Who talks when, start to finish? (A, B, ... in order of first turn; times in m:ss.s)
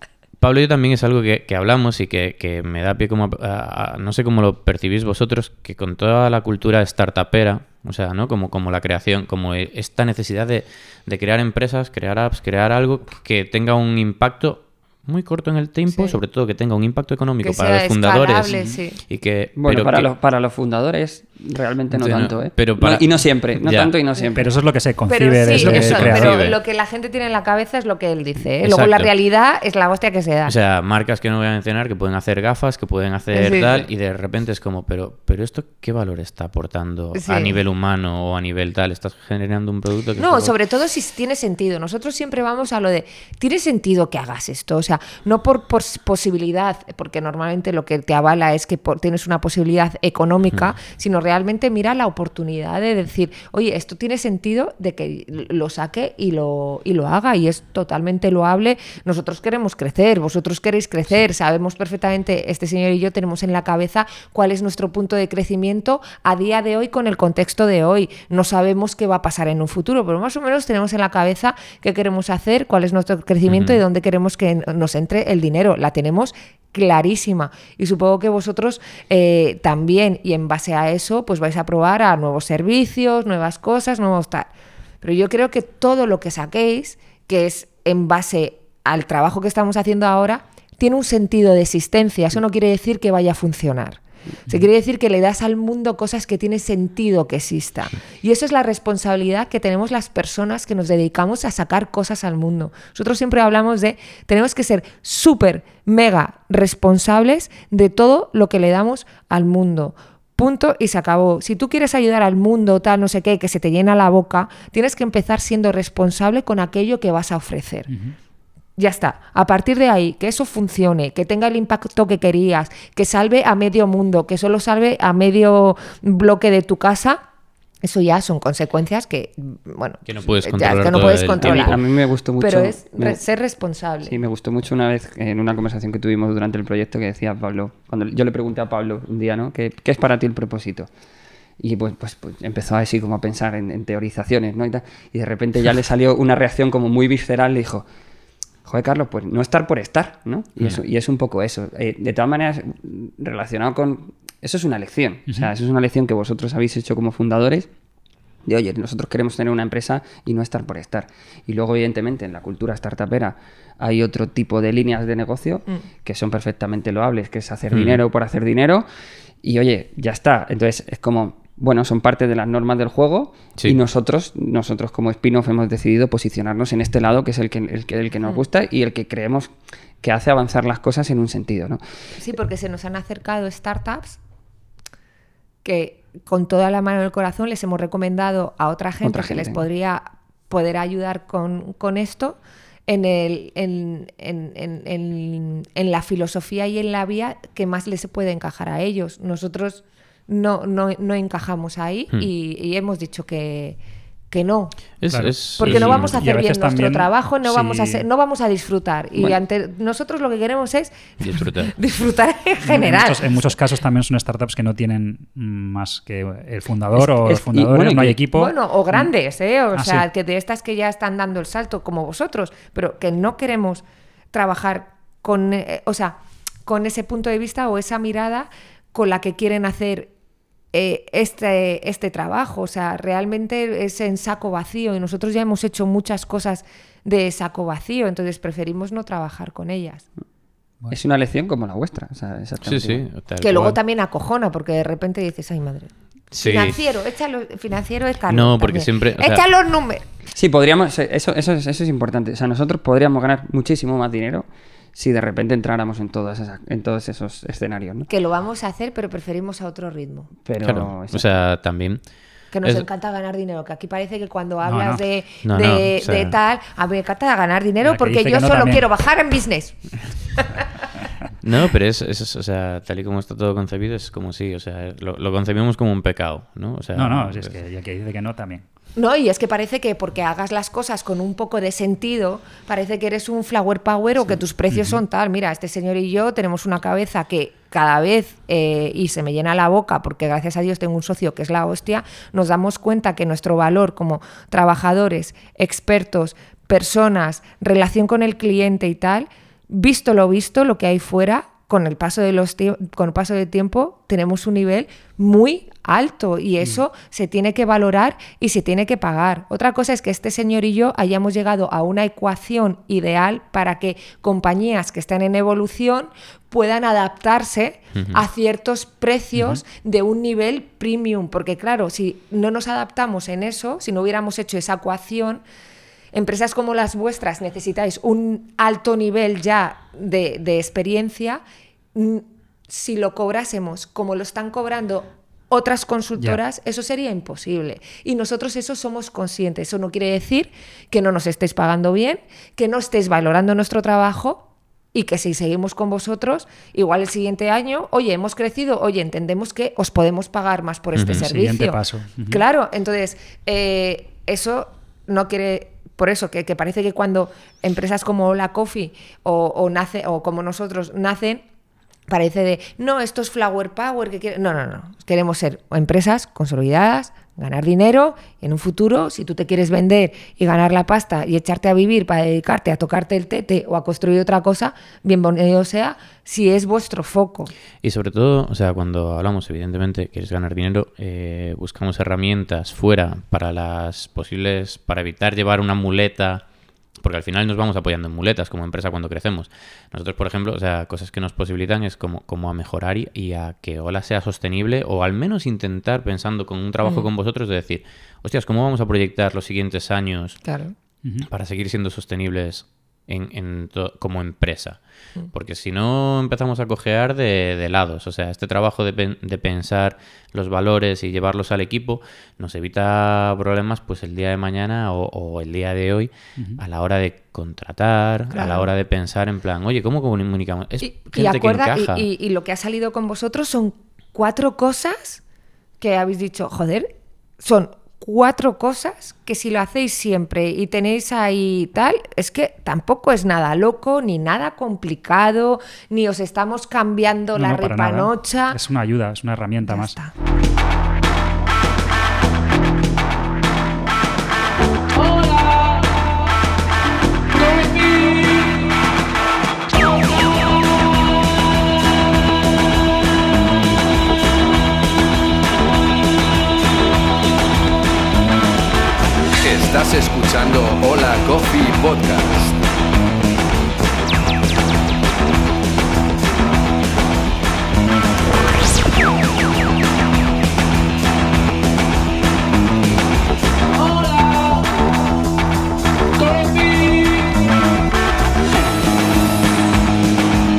0:00.4-0:20.1 A
0:15.9-0:16.2 B
0:17.4-0:19.0 B
0:19.6-0:24.5 C
0:21.9-0:23.9 A
0:24.4-0:26.4 D
0:25.1-0:30.5 B
0:25.5-0:26.6 A
0:28.6-0:29.1 A
0:30.5-0:40.6 A
0:33.3-0:33.8 B
0:37.1-0:37.6 B
0:40.2-1:24.5 B
1:13.5-1:13.8 A
1:25.0-1:57.9 B
1:57.9-1:58.2 D
1:58.8-2:07.2 B
2:07.8-2:11.8 B
2:10.1-2:11.8 A
2:11.4-2:13.2 C
2:12.4-2:14.2 B
2:14.0-2:20.9 C
2:21.6-2:27.8 C
2:28.6-2:37.7 C
2:38.5-2:48.8 C
2:47.7-2:48.0 A
2:49.4-3:01.8 C
3:02.2-3:04.2 B
3:05.6-3:23.8 B
3:09.0-3:09.6 C
3:24.3-3:24.8 B
3:25.0-3:26.2 A
3:25.1-3:28.1 D
3:25.6-3:33.5 B
3:31.2-3:31.7 A
3:32.6-3:39.1 D
3:37.0-3:38.2 C
3:38.3-3:50.1 B
3:39.8-3:40.1 D
3:50.7-4:00.1 B
4:00.9-4:03.1 C
4:02.6-4:03.8 A
4:03.4-4:10.0 B
4:06.3-4:06.8 A
4:08.3-4:09.4 A
4:10.4-4:18.1 C
4:18.1-4:20.3 B
4:20.4-4:21.3 C
4:20.6-4:22.0 A
4:22.5-4:29.8 B
4:24.7-4:25.0 D
4:25.4-4:26.4 A
4:27.8-4:28.8 D
4:30.4-4:30.6 B
4:31.4-4:37.6 A
4:37.0-4:38.6 D
4:39.0-5:25.4 B
5:18.0-5:18.2 A
5:19.4-5:19.6 D
5:26.1-5:31.4 B
5:32.0-6:01.4 B
5:51.0-5:51.3 A
5:51.1-5:52.4 D
6:02.1-6:17.5 B
6:17.8-6:26.4 A
6:27.0-6:40.4 A
6:36.8-6:37.1 B
6:40.4-6:40.7 B
6:41.2-7:02.1 A
6:58.3-6:58.7 B
7:00.8-7:05.2 B
7:05.8-7:06.9 B
7:07.4-7:18.6 B
7:17.4-7:20.0 D
7:19.6-7:20.1 B
7:39.4-7:42.6 E